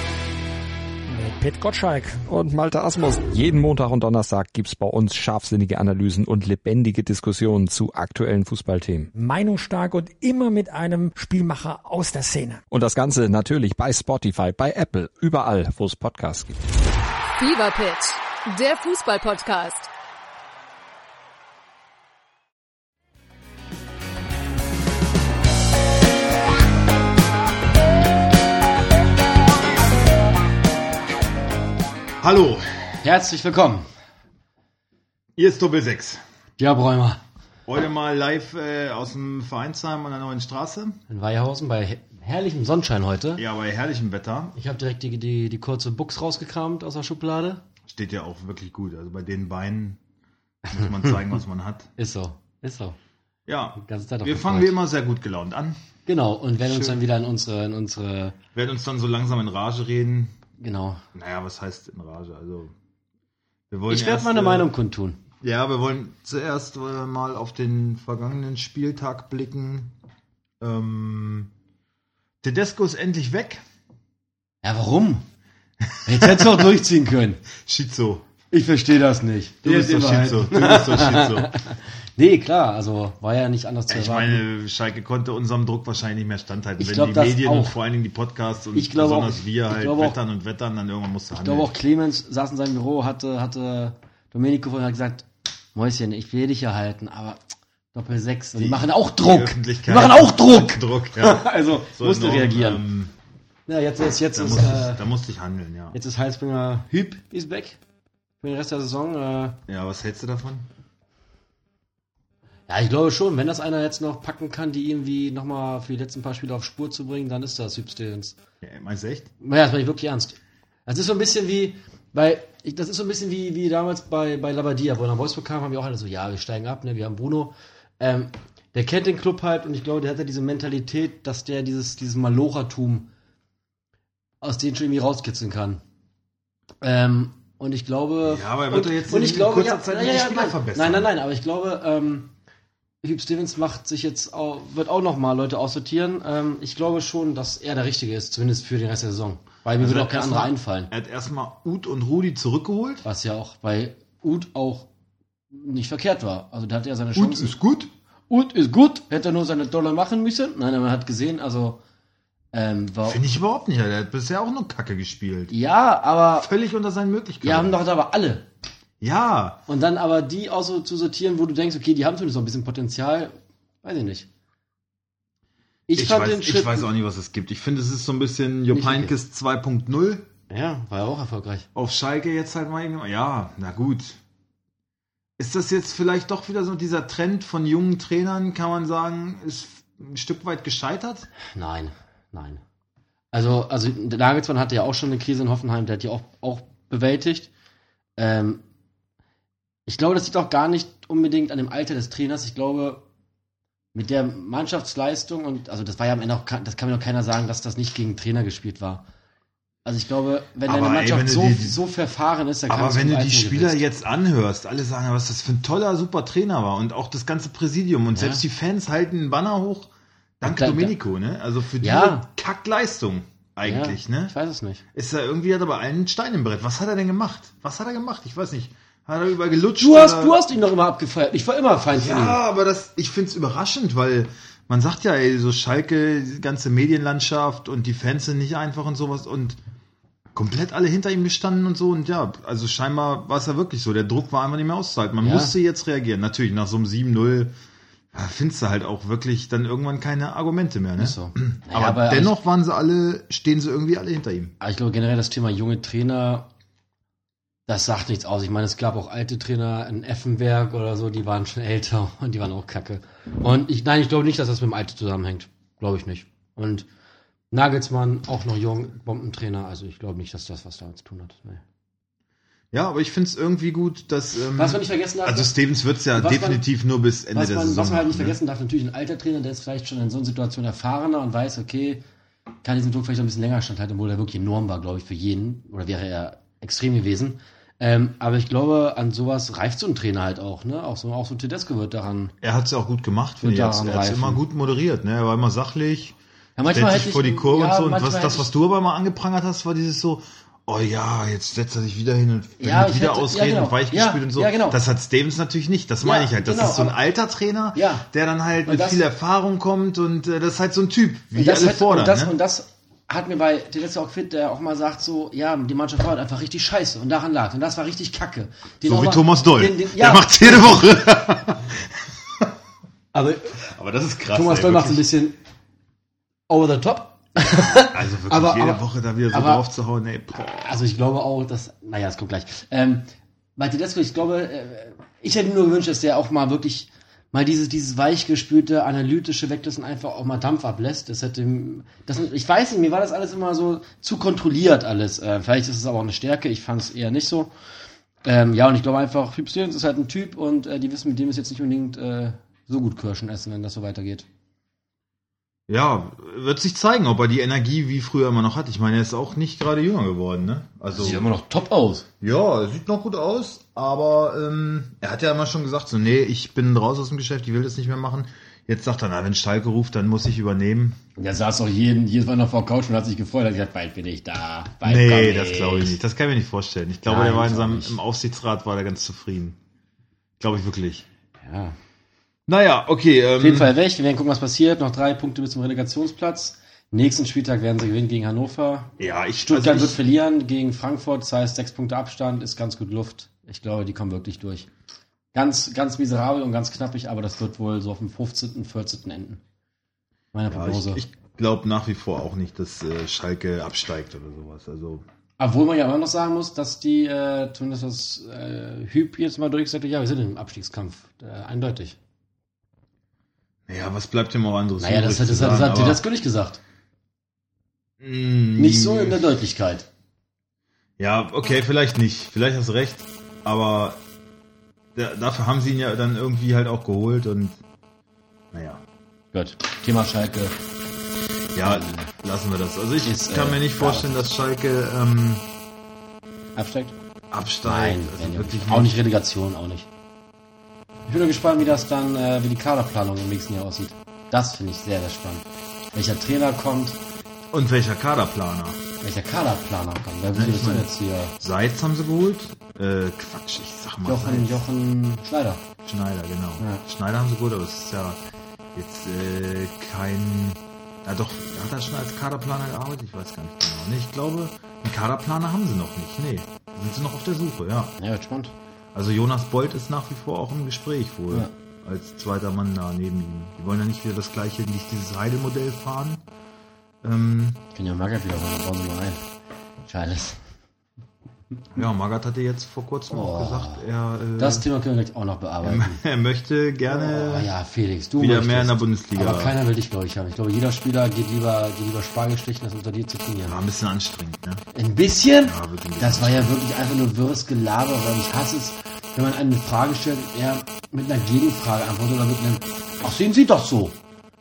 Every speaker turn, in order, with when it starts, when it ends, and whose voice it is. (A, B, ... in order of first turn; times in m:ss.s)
0:01.1-0:02.2 A
0:02.3-0:09.1 B
0:09.1-0:12.6 A
0:12.7-0:16.6 B
0:17.4-0:19.9 C
0:32.2-0:32.9 D
0:33.0-0:33.9 E
0:35.4-0:36.2 D
0:36.6-0:37.2 E
0:37.7-0:41.0 D
0:41.1-0:43.4 E
0:43.4-0:44.6 D
0:44.5-0:47.6 E
0:47.9-0:50.0 D
0:50.6-0:51.2 E
0:50.7-0:51.9 D
0:52.0-0:53.0 E
0:53.5-0:55.8 D
0:53.8-0:54.8 E
0:56.0-0:58.4 E
0:56.6-0:57.0 D
0:58.5-1:00.3 D
1:00.6-1:01.0 E
1:01.1-1:02.7 D
1:03.7-1:04.7 D
1:03.9-1:05.2 E
1:05.4-1:09.9 D
1:10.6-1:11.5 D
1:12.4-1:13.6 D
1:14.6-1:15.2 E
1:16.0-1:17.4 E
1:16.1-1:16.5 D
1:17.6-1:18.2 D
1:18.5-1:24.4 E
1:19.6-1:21.5 D
1:23.9-1:31.7 D
1:26.8-1:27.8 E
1:28.7-1:30.2 E
1:31.4-1:37.4 E
1:37.9-1:42.8 E
1:38.6-1:43.1 D
1:43.7-1:45.0 E
1:44.3-1:46.0 D
1:45.9-1:47.8 E
1:48.4-1:49.6 E
1:49.7-1:50.7 D
1:52.7-1:58.4 E
1:58.6-1:59.3 D
1:59.4-2:13.1 E
2:14.4-2:15.8 E
2:16.8-2:22.3 E
2:18.2-2:21.1 D
2:23.0-2:30.9 E
2:29.8-2:33.0 D
2:33.0-2:34.9 E
2:35.5-2:37.5 E
2:37.1-2:37.9 D
2:38.3-2:41.8 E
2:42.5-2:43.2 E
2:43.0-2:45.5 D
2:45.5-2:46.5 E
2:46.4-2:47.7 D
2:47.4-2:48.5 E
2:49.0-2:49.6 D
2:49.7-2:54.3 E
2:55.9-2:56.9 E
2:55.9-3:00.3 D
2:58.7-2:59.1 E
3:00.5-3:01.6 E
3:01.7-3:04.2 D
3:05.4-3:11.3 D
3:11.5-3:12.6 E
3:13.3-3:17.5 E
3:18.2-3:18.6 E
3:19.8-3:23.0 E
3:23.9-3:29.0 E
3:29.8-3:33.8 E
3:30.6-3:31.8 D
3:32.7-3:39.9 D
3:38.1-3:38.4 E
3:40.4-3:44.3 D
3:40.4-3:41.0 E
3:41.8-3:42.2 E
3:43.6-3:44.8 E
3:44.9-3:50.4 D
3:49.8-3:52.4 E
3:51.9-3:59.6 D
4:00.3-4:07.5 D
4:05.2-4:05.5 E
4:08.1-4:14.5 D
4:11.0-4:12.4 E
4:14.6-4:16.5 E
4:17.7-4:26.9 E
4:27.5-4:31.6 E
4:32.7-4:38.4 D
4:34.6-4:35.5 E
4:36.1-4:36.6 E
4:37.3-4:42.0 E
4:42.6-4:52.3 E
4:52.4-4:56.2 D
4:53.4-4:54.4 E
4:56.6-4:58.5 E
4:56.7-5:12.4 D
5:02.6-5:04.8 E
5:06.0-5:07.0 E
5:07.7-5:08.0 E
5:08.6-5:09.0 E
5:11.3-5:20.8 E
5:18.8-5:22.5 D
5:23.1-5:23.6 E
5:23.6-5:25.1 D
5:24.3-5:25.4 E
5:26.5-5:29.6 E
5:27.5-5:30.8 D
5:30.4-5:47.5 E
5:48.2-5:54.2 E
5:55.7-6:01.2 D
6:00.9-6:02.1 E
6:02.2-6:11.0 D
6:11.2-6:16.0 E
6:14.8-6:19.6 D
6:17.0-6:18.0 E
6:20.4-6:21.0 D
6:21.4-6:21.8 E
6:22.5-6:23.7 D
6:23.4-6:28.9 E
6:29.0-6:30.0 D
6:29.4-6:34.7 E
6:35.3-6:39.4 E
6:40.3-6:41.0 E
6:40.5-6:45.0 D
6:45.4-6:52.0 E
6:53.7-6:56.0 D
6:54.8-6:56.6 E
6:58.0-6:59.2 D
6:58.6-6:59.9 E
7:01.0-7:04.0 D
7:04.9-7:07.6 D
7:08.5-7:08.8 D
7:09.3-7:10.6 E
7:11.5-7:15.4 D
7:11.6-7:12.1 E
7:13.0-7:14.2 E
7:16.6-7:17.0 E
7:17.3-7:19.0 D
7:17.6-7:19.9 E
7:21.1-7:27.0 E
7:27.5-7:28.8 D
7:29.0-7:31.3 E
7:30.3-7:30.9 D
7:31.4-7:34.6 D
7:34.0-7:35.6 E
7:35.8-7:38.2 D
7:38.7-7:47.9 D
7:48.0-7:48.5 E
7:48.9-7:56.2 D
7:57.0-7:57.6 D
7:57.7-7:59.2 E
7:59.8-8:00.4 E
8:01.7-8:04.6 D
8:03.1-8:03.8 E
8:04.4-8:06.0 E
8:05.6-8:07.5 D
8:06.9-8:13.6 E
8:08.2-8:09.6 D
8:13.4-8:14.6 D
8:14.7-8:24.0 E
8:15.4-8:16.5 D